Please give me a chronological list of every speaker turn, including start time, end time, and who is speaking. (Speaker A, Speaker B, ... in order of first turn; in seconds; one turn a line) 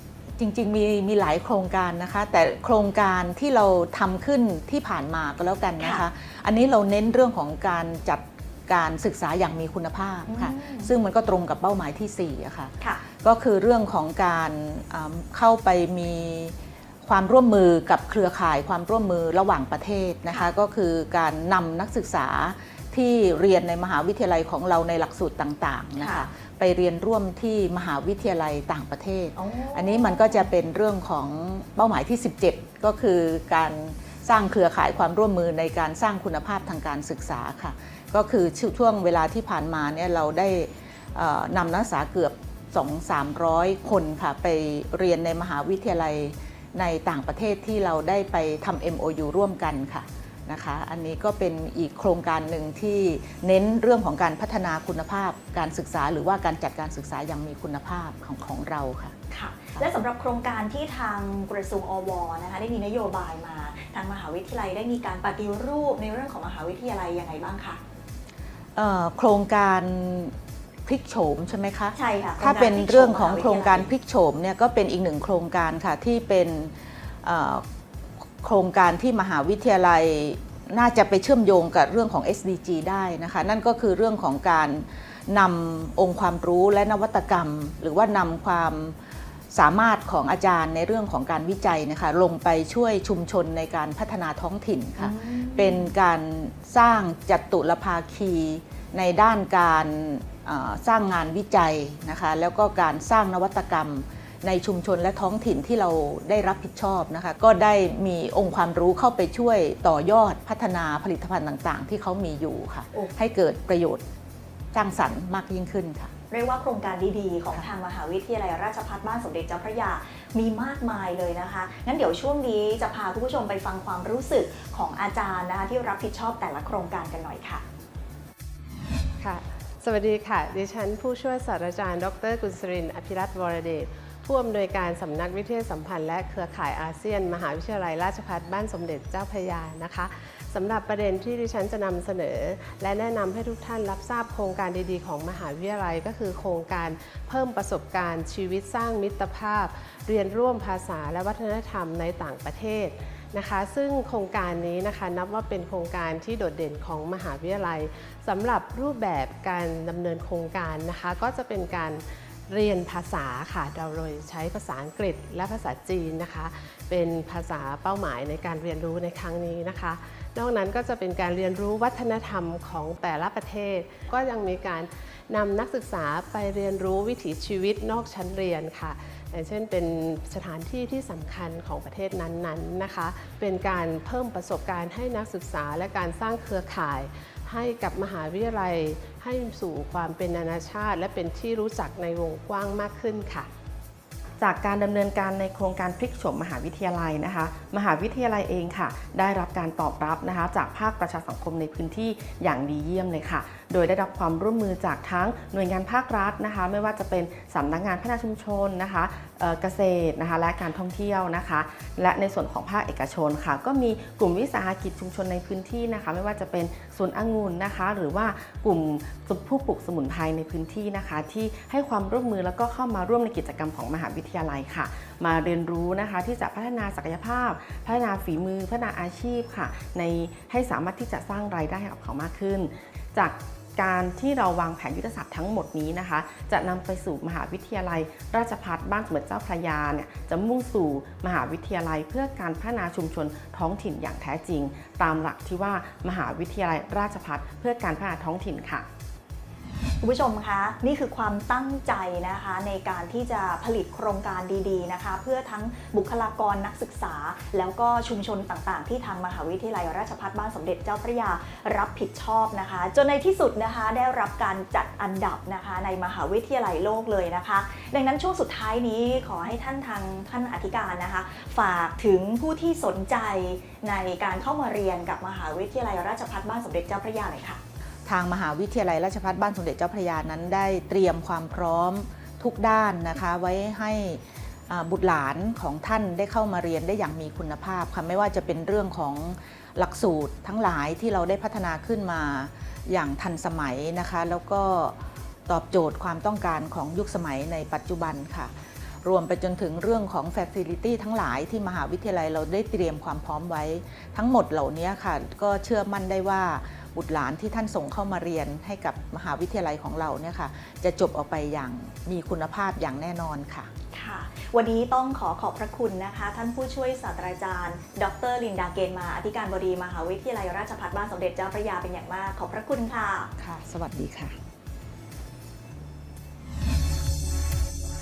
Speaker A: 0.4-59.2
Speaker B: 5.8-6.0
Speaker B: 10.3-10.9
Speaker B: 26.0-26.3
Speaker B: 29.4-30.5
Speaker B: 59.3-67.8
Speaker A: 68.8-77.7
Speaker B: 72.0-73.9
Speaker A: 78.4-89.0
Speaker A: 89.5-114.0
Speaker B: 95.0-95.9
Speaker A: 114.7-116.1
Speaker B: 116.3-127.6
Speaker C: 129.2-193.5
Speaker D: 194.4-248.9
Speaker B: 250.0-277.6
Speaker A: 278.1-298.5
Speaker A: 299.0-313.7
Speaker B: 313.9-323.3
Speaker A: 323.4-324.4